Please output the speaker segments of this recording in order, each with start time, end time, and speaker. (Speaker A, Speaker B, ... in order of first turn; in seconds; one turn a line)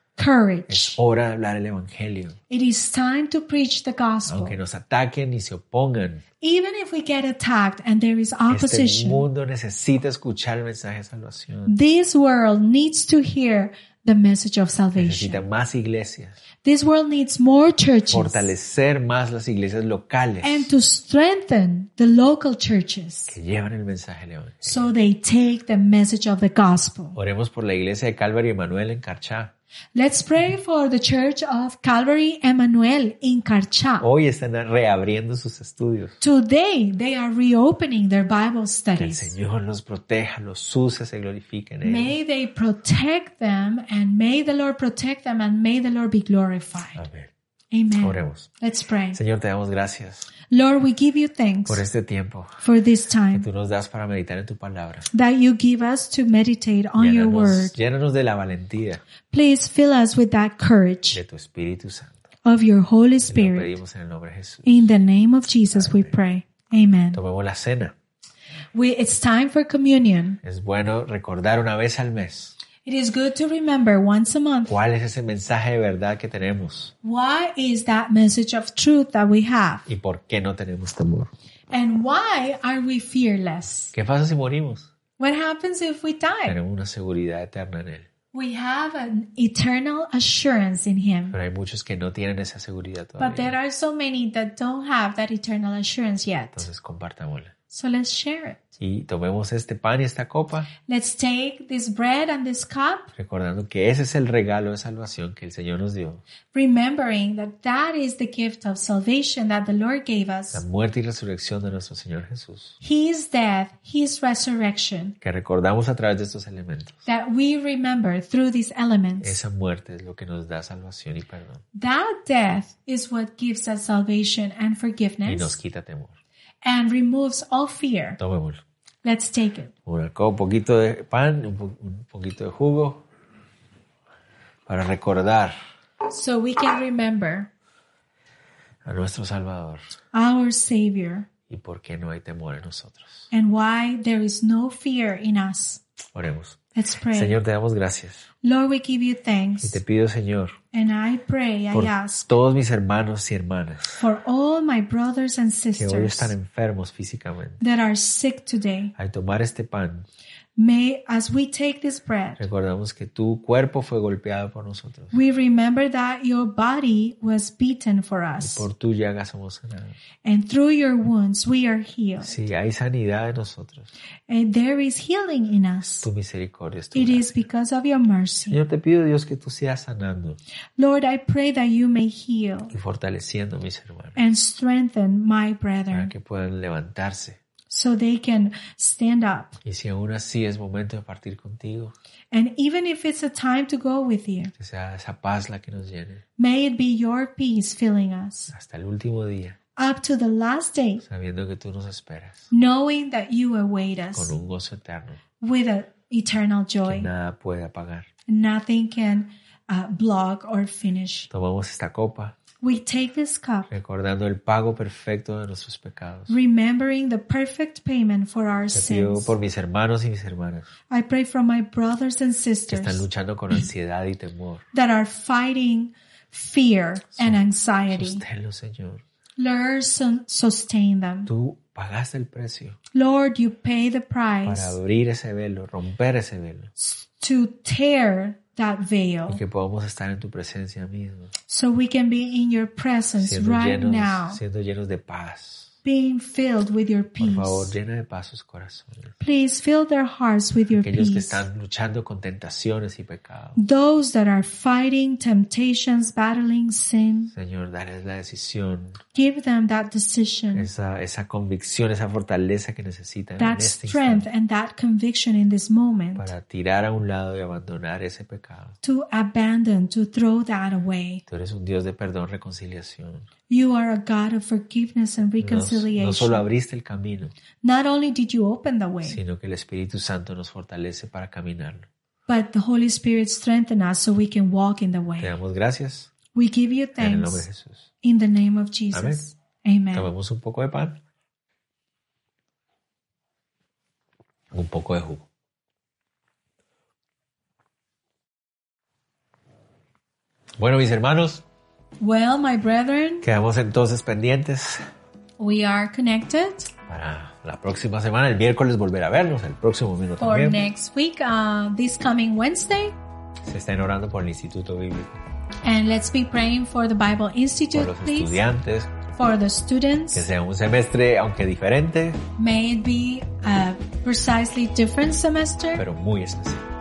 Speaker A: 0.2-1.0
Speaker B: 0.7-2.4
Speaker A: 2.5-4.6
Speaker B: 4.3-6.2
Speaker A: 6.4-9.2
Speaker B: 8.5-11.7
Speaker A: 11.7-15.4
Speaker B: 15.0-16.4
Speaker A: 16.6-18.5
Speaker B: 18.1-20.7
Speaker A: 20.4-23.3
Speaker B: 23.3-24.9
Speaker A: 24.6-27.1
Speaker B: 27.1-29.5
Speaker A: 29.9-34.1
Speaker B: 34.0-36.2
Speaker A: 36.2-39.3
Speaker B: 39.0-42.1
Speaker A: 41.8-47.0
Speaker B: 47.0-47.3
Speaker A: 47.7-49.2
Speaker B: 48.0-48.5
Speaker B: 49.1-50.3
Speaker A: 50.5-51.8
Speaker B: 51.6-52.6
Speaker A: 52.6-53.5
Speaker B: 53.3-55.1
Speaker A: 55.1-57.8
Speaker B: 57.0-59.0
Speaker A: 59.3-61.2
Speaker B: 61.1-62.2
Speaker A: 62.4-63.8
Speaker B: 63.2-64.8
Speaker A: 64.7-67.2
Speaker B: 65.7-66.1
Speaker B: 67.1-67.9
Speaker A: 68.7-70.4
Speaker B: 70.4-72.5
Speaker A: 72.8-74.7
Speaker B: 74.7-76.9
Speaker A: 77.0-79.9
Speaker B: 79.9-81.3
Speaker A: 81.7-83.9
Speaker B: 83.9-84.9
Speaker A: 85.2-86.6
Speaker B: 86.5-88.1
Speaker A: 88.3-91.3
Speaker B: 91.3-93.5
Speaker A: 93.2-96.7
Speaker B: 96.5-97.5
Speaker A: 97.7-98.8
Speaker B: 98.8-100.7
Speaker A: 100.9-103.1
Speaker B: 103.2-106.2
Speaker A: 106.5-110.6
Speaker B: 110.5-112.8
Speaker A: 112.8-115.2
Speaker B: 115.2-117.0
Speaker A: 117.1-119.4
Speaker B: 119.2-121.6
Speaker A: 121.7-125.6
Speaker B: 125.2-126.2
Speaker A: 126.6-128.2
Speaker B: 128.2-128.6
Speaker A: 129.0-129.7
Speaker B: 129.8-133.0
Speaker B: 134.7-135.6
Speaker A: 136.1-137.5
Speaker B: 138.8-139.8
Speaker A: 140.1-141.3
Speaker B: 141.5-143.3
Speaker A: 143.3-145.8
Speaker B: 146.1-146.6
Speaker A: 146.8-147.3
Speaker B: 147.1-148.3
Speaker A: 148.4-149.8
Speaker B: 149.6-150.6
Speaker A: 150.7-152.3
Speaker B: 151.7-154.0
Speaker A: 154.0-156.3
Speaker B: 155.8-157.6
Speaker A: 157.6-158.9
Speaker B: 159.0-160.1
Speaker A: 160.6-162.4
Speaker B: 162.4-165.2
Speaker A: 165.1-168.7
Speaker B: 168.4-170.0
Speaker A: 170.2-172.3
Speaker B: 172.2-173.9
Speaker A: 174.3-176.1
Speaker B: 176.0-177.4
Speaker A: 176.9-178.6
Speaker B: 178.5-180.4
Speaker A: 180.8-182.7
Speaker B: 182.7-184.2
Speaker A: 184.2-186.1
Speaker B: 185.9-187.4
Speaker A: 187.7-189.6
Speaker B: 189.6-191.9
Speaker A: 192.3-194.5
Speaker B: 194.6-196.2
Speaker A: 196.4-198.5
Speaker B: 198.5-199.6
Speaker A: 199.8-201.0
Speaker B: 201.0-202.5
Speaker A: 202.5-204.3
Speaker B: 204.1-205.2
Speaker A: 205.4-207.1
Speaker B: 206.9-208.1
Speaker A: 208.3-211.3
Speaker B: 211.3-212.3
Speaker A: 212.6-213.7
Speaker B: 213.7-216.3
Speaker A: 216.3-219.3
Speaker B: 218.7-220.7
Speaker A: 220.9-223.1
Speaker B: 222.7-224.6
Speaker A: 224.7-228.2
Speaker B: 227.9-229.0
Speaker A: 229.4-231.3
Speaker B: 231.3-232.8
Speaker A: 232.9-234.8
Speaker B: 234.4-236.7
Speaker A: 236.8-239.4
Speaker B: 239.3-241.3
Speaker A: 241.5-244.4
Speaker B: 243.2-245.7
Speaker A: 245.8-247.7
Speaker B: 247.2-249.1
Speaker A: 249.2-251.4
Speaker B: 250.7-253.6
Speaker A: 253.6-257.3
Speaker B: 257.3-259.0
Speaker A: 259.1-260.7
Speaker B: 260.5-264.2
Speaker A: 263.4-266.3
Speaker B: 266.1-268.8
Speaker A: 268.8-271.2
Speaker B: 271.3-273.3
Speaker A: 273.5-276.4
Speaker B: 275.4-277.3
Speaker A: 277.6-279.2
Speaker B: 279.0-281.9
Speaker A: 282.3-285.3
Speaker B: 285.2-286.1
Speaker A: 286.3-287.4
Speaker B: 287.0-287.9
Speaker A: 288.0-290.1
Speaker B: 288.9-289.2
Speaker B: 289.9-291.0
Speaker B: 294.5-295.3
Speaker B: 300.6-301.4
Speaker A: 302.0-303.2
Speaker B: 303.2-304.8
Speaker A: 305.4-306.7
Speaker B: 306.9-310.6
Speaker A: 310.2-312.9
Speaker B: 313.4-315.1
Speaker A: 315.6-318.4
Speaker B: 317.7-318.9
Speaker A: 319.1-320.3
Speaker B: 320.1-322.2
Speaker A: 322.4-325.8
Speaker B: 325.8-326.6